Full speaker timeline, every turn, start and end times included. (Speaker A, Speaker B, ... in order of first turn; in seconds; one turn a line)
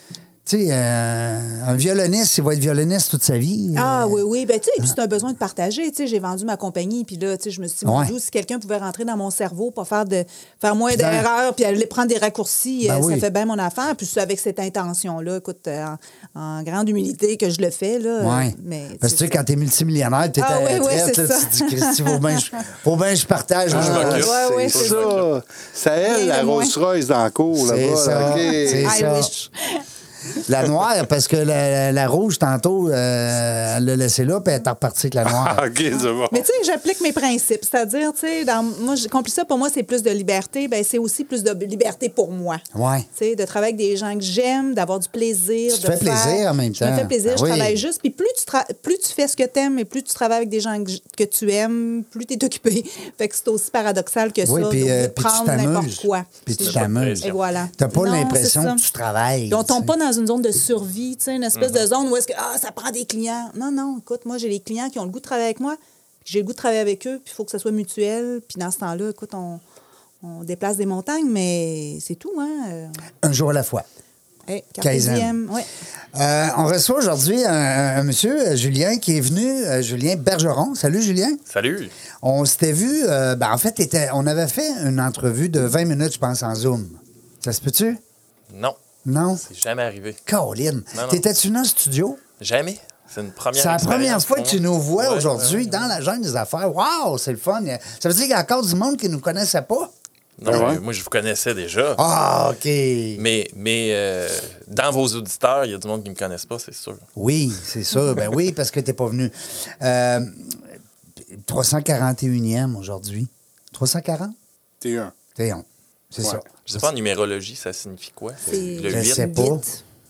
Speaker A: 0.5-4.2
Speaker B: 3.7-19.4
Speaker A: 7.8-8.1
Speaker A: 10.9-11.2
Speaker A: 12.8-13.2
Speaker A: 18.2-24.3
Speaker B: 20.4-22.4
Speaker C: 23.7-25.3
Speaker D: 23.7-29.0
Speaker B: 24.0-25.1
Speaker B: 26.0-26.8
Speaker A: 27.5-29.3
Speaker B: 28.4-29.8
Speaker A: 30.4-35.6
Speaker D: 35.2-36.4
Speaker B: 36.3-42.6
Speaker A: 42.7-43.1
Speaker B: 43.1-58.8
Speaker A: 45.7-47.8
Speaker A: 54.4-59.9
Speaker C: 56.6-57.4
Speaker B: 59.5-69.6
Speaker C: 61.5-61.8
Speaker B: 70.2-73.0
Speaker A: 73.2-73.8
Speaker B: 74.5-75.7
Speaker A: 74.8-75.3
Speaker A: 76.1-81.4
Speaker C: 81.5-81.9
Speaker A: 82.2-88.0
Speaker C: 88.5-88.8
Speaker A: 89.0-89.4
Speaker C: 89.4-90.2
Speaker A: 90.3-92.2
Speaker C: 90.9-91.2
Speaker C: 92.4-95.9
Speaker A: 93.5-99.9
Speaker C: 100.4-102.0
Speaker A: 100.5-100.8
Speaker D: 100.5-100.8
Speaker A: 102.0-103.2
Speaker C: 103.2-107.0
Speaker A: 107.2-110.6
Speaker A: 111.4-114.3
Speaker D: 114.8-115.1
Speaker A: 115.3-116.4
Speaker C: 116.6-119.3
Speaker B: 118.5-119.8
Speaker A: 118.9-119.6